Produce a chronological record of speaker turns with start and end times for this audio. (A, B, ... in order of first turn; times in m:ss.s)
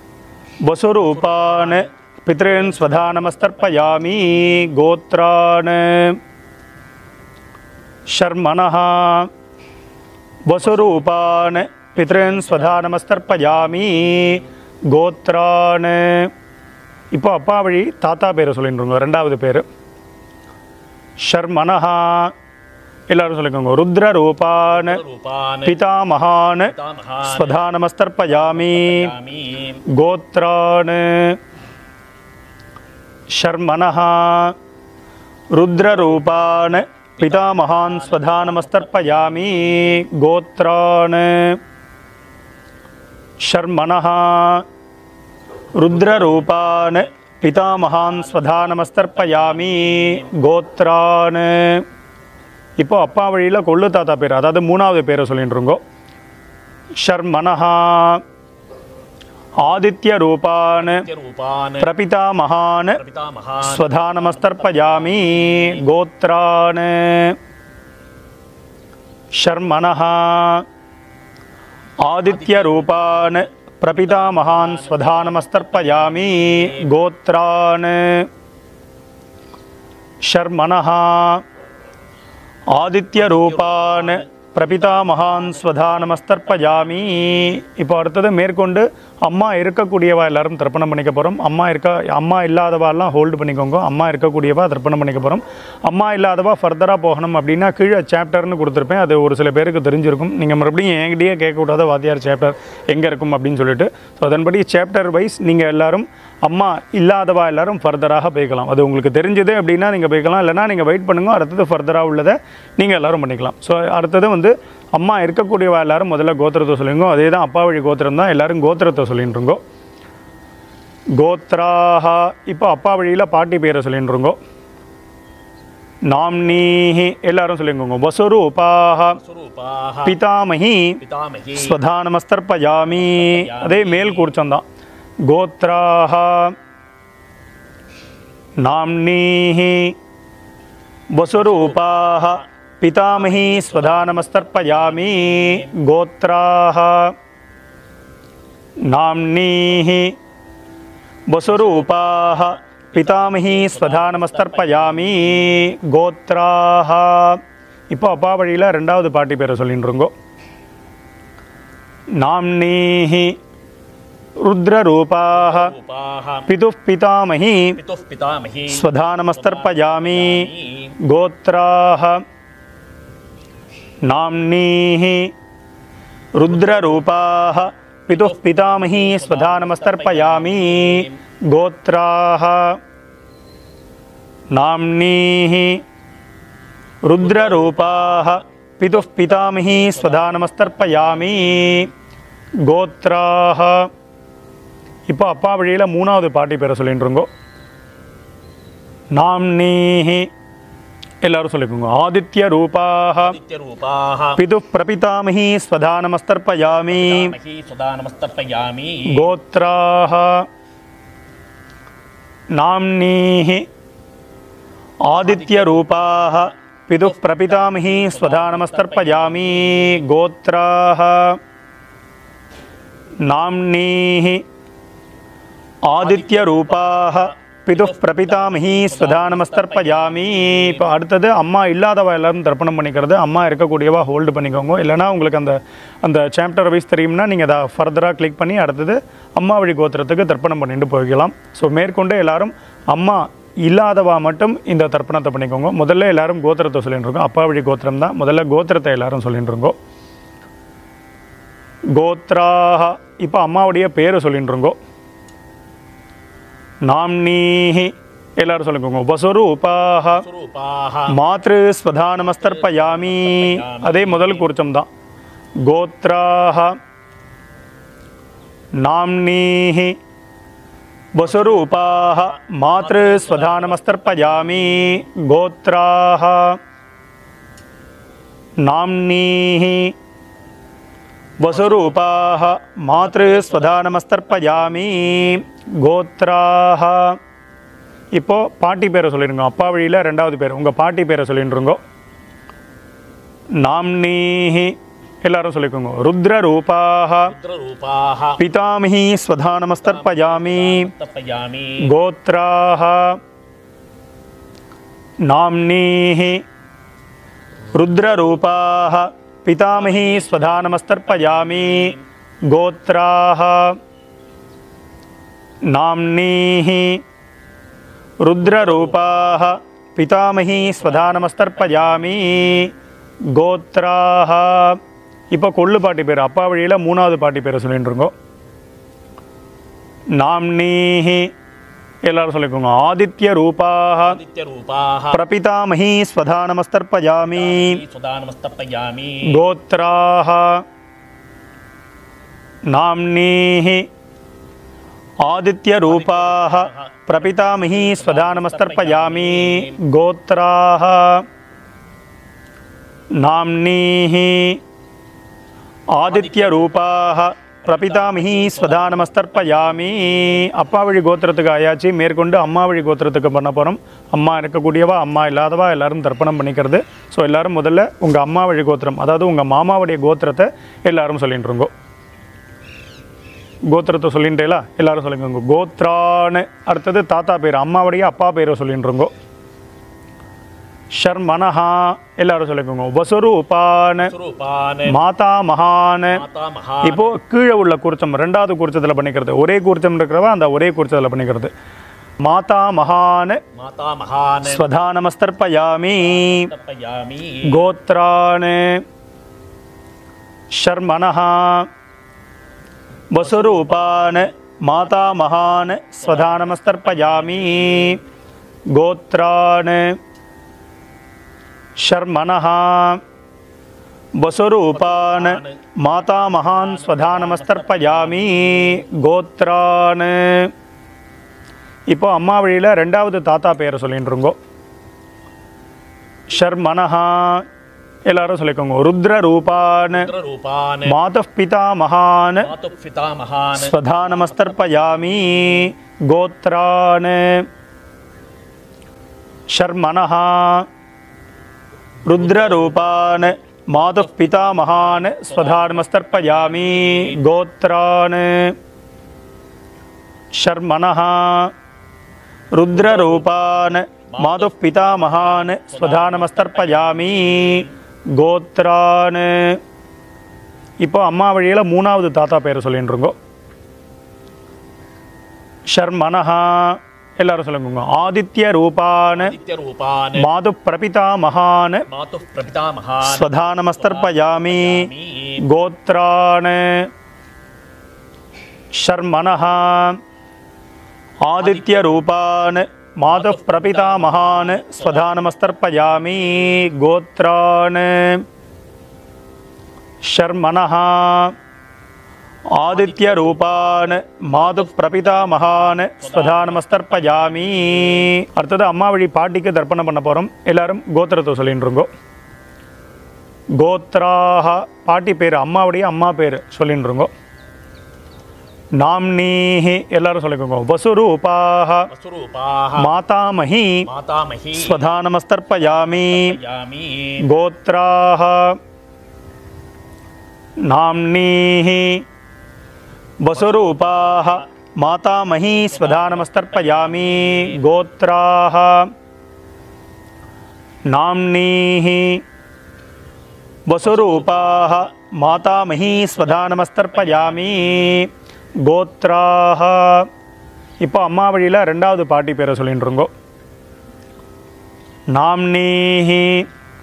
0:00.6-0:06.2 A
0:01.0-0:04.4 B
0:08.1-0:09.3 A
0:10.4-0:16.3 A
0:10.6-0:14.4 B
0:17.1-0:19.6 A
0:21.2-0:22.3 A
0:23.1-0:25.0 A
0:24.7-0:25.8 B
0:25.6-0:29.1 A
0:26.6-0:27.6 B
0:28.2-0:29.8 B
0:29.9-0:31.4 A
0:33.3-0:34.6 A
0:35.5-0:41.6 A
0:35.8-0:40.0 B
0:43.4-0:44.6 A
0:45.8-0:51.8 A
0:45.9-0:47.1 B
0:47.8-0:50.3 B
0:52.8-0:55.8 A
0:57.0-0:58.2 A
0:59.6-1:01.0 A
1:00.8-1:01.9 B
1:01.8-1:03.0 A
1:03.0-1:05.9 B
1:03.6-1:07.4 A
1:09.4-1:10.6 A
1:12.0-1:18.3 A
1:12.2-1:16.9 B
1:20.2-1:21.4 A
1:22.7-1:59.6 A
1:23.2-1:27.6 B
2:01.2-2:04.4 A
2:06.0-2:09.2 A
2:09.2-2:10.2 B
2:10.0-2:11.0 A
2:11.0-2:11.8 B
2:11.5-2:14.6 A
2:12.9-2:14.3 B
2:15.2-2:16.6 A
2:18.6-2:20.0 A
2:21.1-2:27.1 A
2:21.3-2:22.4 B
2:23.0-2:25.7 B
2:28.9-2:30.2 A
2:31.3-2:40.1 A
2:31.4-2:35.6 B
2:42.2-2:43.4 A
2:44.4-2:45.7 A
2:45.3-2:46.5 B
2:46.5-2:47.8 A
2:47.8-2:50.9 B
2:48.7-2:50.5 A
2:51.0-2:52.2 A
2:54.0-2:55.3 A
2:56.3-3:02.8 A
2:56.4-2:57.0 B
2:58.1-3:01.2 B
3:04.5-3:05.8 A
3:07.0-3:11.9 A
3:07.2-3:11.9 B
3:12.6-3:13.9 A
3:15.1-3:17.3 A
3:19.1-3:20.3 A
3:21.2-3:23.4 A
3:23.2-3:24.4 B
3:24.4-3:27.3 A
3:26.6-3:29.3 B
3:29.1-3:30.5 A
3:32.5-3:33.7 A
3:35.0-3:41.4 A
3:35.1-3:36.5 B
3:37.0-3:40.0 B
3:43.2-3:44.4 A
3:45.9-4:09.7 A
3:46.0-3:51.0 B
4:11.9-4:14.8 A
4:16.8-4:20.2 A
4:20.1-4:21.2 B
4:21.1-4:24.9 A
4:22.1-4:24.5 B
4:25.6-4:26.8 A
4:28.8-4:30.0 A
4:31.1-4:36.6 A
4:31.2-4:34.9 B
4:38.6-4:39.9 A
4:41.4-4:47.2 A
4:41.4-4:44.7 B
4:48.1-4:51.8 A
4:53.6-4:57.3 A
4:57.3-4:58.4 B
4:58.4-5:00.9 A
4:59.7-5:01.9 B
5:01.8-5:03.2 A
5:05.2-5:06.4 A
5:07.7-5:11.9 A
5:09.7-5:12.0 B
5:12.5-5:13.8 A
5:15.7-5:17.0 A
5:18.2-5:22.7 A
5:18.4-5:19.6 B
5:20.5-5:22.5 B
5:23.3-5:24.8 A
5:25.3-5:28.1 A
5:30.2-5:31.3 A
5:32.0-5:34.2 A
5:34.0-5:35.2 B
5:35.1-5:37.8 A
5:37.2-5:39.4 B
5:39.2-5:40.6 A
5:42.7-5:43.9 A
5:45.2-5:51.2 A
5:45.8-5:49.8 B
5:53.2-5:54.6 A
5:55.9-6:11.7 A
5:56.0-5:56.9 B
5:57.6-6:00.3 B
6:13.7-6:19.1 A
6:20.9-6:24.1 A
6:24.0-6:25.0 B
6:24.9-6:26.2 A
6:26.1-6:27.1 B
6:26.8-6:31.5 A
6:32.2-6:33.4 A
6:33.5-6:34.7 B
6:34.4-6:36.5 A
6:35.9-6:37.6 B
6:37.5-6:38.8 A
6:40.5-6:41.7 A
6:43.1-6:48.0 A
6:43.2-6:48.0 B
6:48.7-6:50.0 A
6:51.8-6:53.0 A
6:54.2-7:00.5 A
6:54.7-6:58.8 B
7:01.9-7:04.4 A
7:06.3-7:07.4 A
7:08.0-7:10.1 A
7:09.9-7:11.0 B
7:10.8-7:12.5 A
7:12.4-7:15.6 B
7:13.6-7:17.5 A
7:19.5-7:20.7 A
7:22.0-7:28.6 A
7:22.1-7:27.2 B
7:30.3-7:31.5 A
7:32.5-7:39.6 A
7:32.7-7:37.7 B
7:40.8-7:43.1 A
7:45.7-7:49.4 A
7:49.2-7:50.3 B
7:50.2-7:51.8 A
7:51.9-7:55.4 B
7:53.0-7:54.9 A
7:55.4-7:56.9 A
7:58.7-8:00.0 A
8:01.2-8:08.2 A
8:01.4-8:02.0 B
8:03.1-8:05.4 B
8:10.0-8:11.4 A
8:12.5-8:21.9 A
8:12.6-8:18.1 B
8:23.6-8:27.1 A
8:28.8-8:31.9 A
8:31.9-8:32.9 B
8:32.8-8:33.8 A
8:33.9-8:34.9 B
8:34.5-8:36.4 A
8:35.6-8:37.3 B
8:37.2-8:38.6 A
8:40.6-8:42.0 A
8:43.2-8:48.9 A
8:43.3-8:44.5 B
8:45.3-8:47.7 B
8:50.9-8:52.2 A
8:53.7-8:58.1 A
8:53.8-8:54.9 B
8:55.5-8:58.0 B
8:58.6-9:00.1 A
9:00.8-9:03.1 A
9:05.1-9:06.5 A